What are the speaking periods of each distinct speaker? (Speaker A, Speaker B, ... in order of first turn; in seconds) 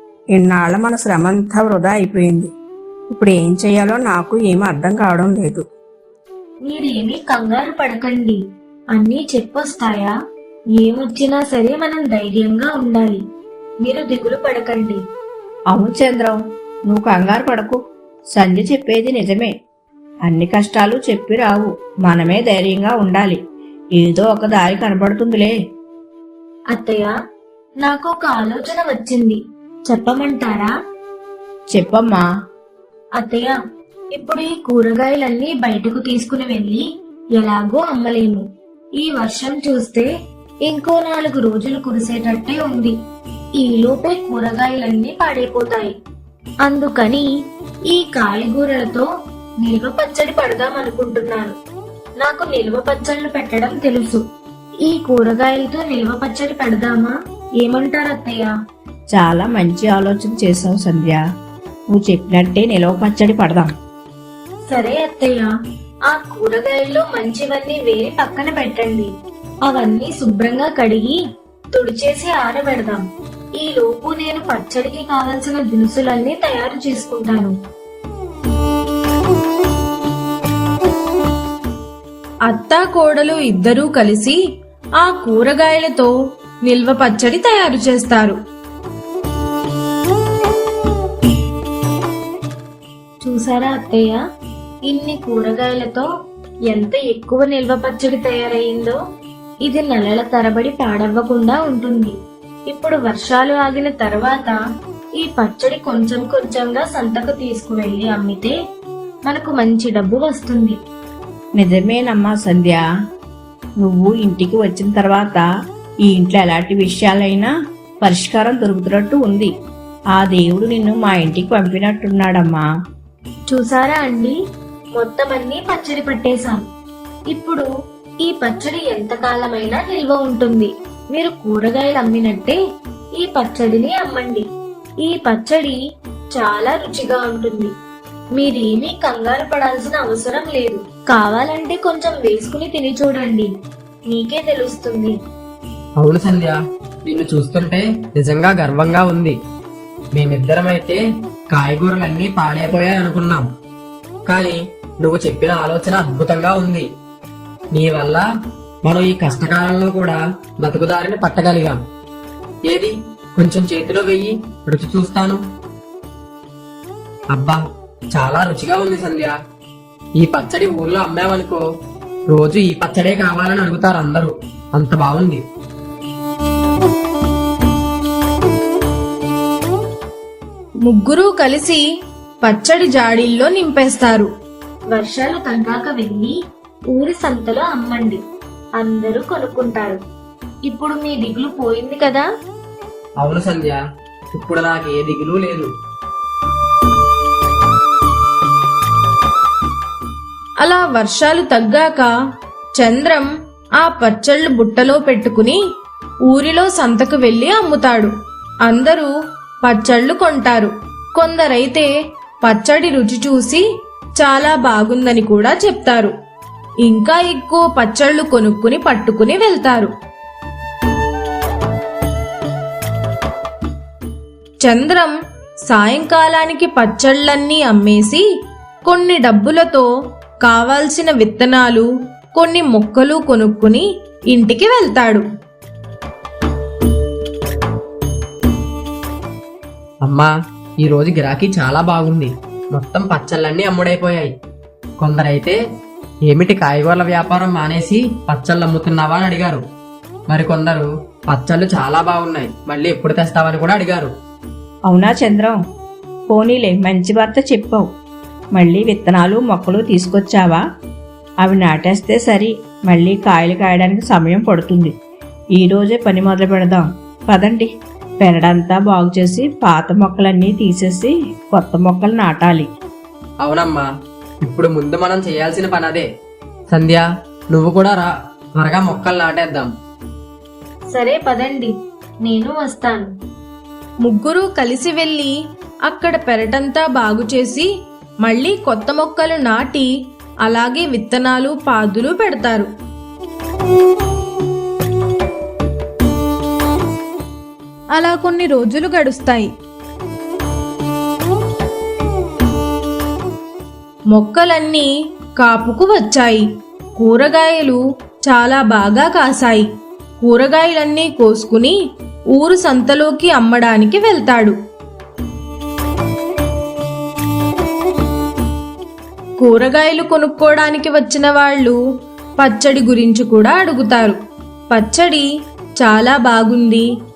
Speaker A: 0.3-2.5, 3.1-5.7, 15.7-17.8, 18.4-19.5, 20.2-23.4, 24.0-25.5, 31.7-32.2, 59.1-61.2, 61.9-63.7, 111.6-112.8, 113.8-115.5, 116.1-117.5, 118.0-119.5, 120.2-122.7, 254.9-255.6, 256.3-257.9, 258.6-260.6, 261.4-264.9, 265.6-267.7, 268.2-272.7
Speaker B: 6.6-8.4, 8.9-10.2, 10.8-13.2, 13.8-15.0, 26.7-27.1, 27.8-30.7, 33.2-33.6, 34.1-38.5, 39.0-40.1, 40.6-43.0, 43.6-45.9, 46.6-47.3, 47.9-49.1, 49.6-51.5, 52.2-54.2, 54.8-58.5, 64.7-65.5, 66.1-69.1, 69.7-71.2, 71.7-73.0, 73.6-77.5, 93.2-94.2, 94.9-96.1, 96.7-99.0, 99.6-102.2, 102.7-104.6, 105.2-108.5, 109.3-110.8, 123.5-124.4, 125.0-126.7, 127.3-127.7, 128.2-132.6, 133.2-134.5, 135.0-135.8, 136.3-137.7, 138.3-143.5, 144.1-145.2, 184.9-186.4, 186.9-188.2, 188.8-190.0, 190.7-192.3, 280.9-283.1
Speaker C: 82.5-84.4, 85.0-86.1, 86.7-88.4, 180.8-181.8, 182.4-184.3, 200.6-202.1, 202.8-203.3, 203.8-205.6, 206.3-208.1, 208.7-209.1, 209.6-211.9, 212.4-213.7, 214.2-216.1, 216.8-219.9, 224.6-225.1, 225.7-228.2, 228.9-229.9, 230.4-235.2, 284.0-285.3, 285.9-287.7, 288.2-289.9, 290.4-292.7, 297.9-299.5, 304.1-306.5, 307.0-309.7, 310.2-311.8, 312.3-314.6, 319.4-321.8, 322.4-324.2, 324.7-325.3, 325.8-326.9
Speaker D: 146.0-149.4, 150.1-153.5, 154.3-156.9, 157.7-158.2, 158.8-161.8, 162.7-165.4, 167.3-167.6, 168.1-169.4, 170.2-171.6, 172.3-175.4, 193.2-193.8, 194.3-195.7, 240.0-240.3, 240.8-244.3, 245.0-245.6, 246.3-249.6, 250.3-254.1, 273.4-273.9, 274.4-276.1, 276.7-279.7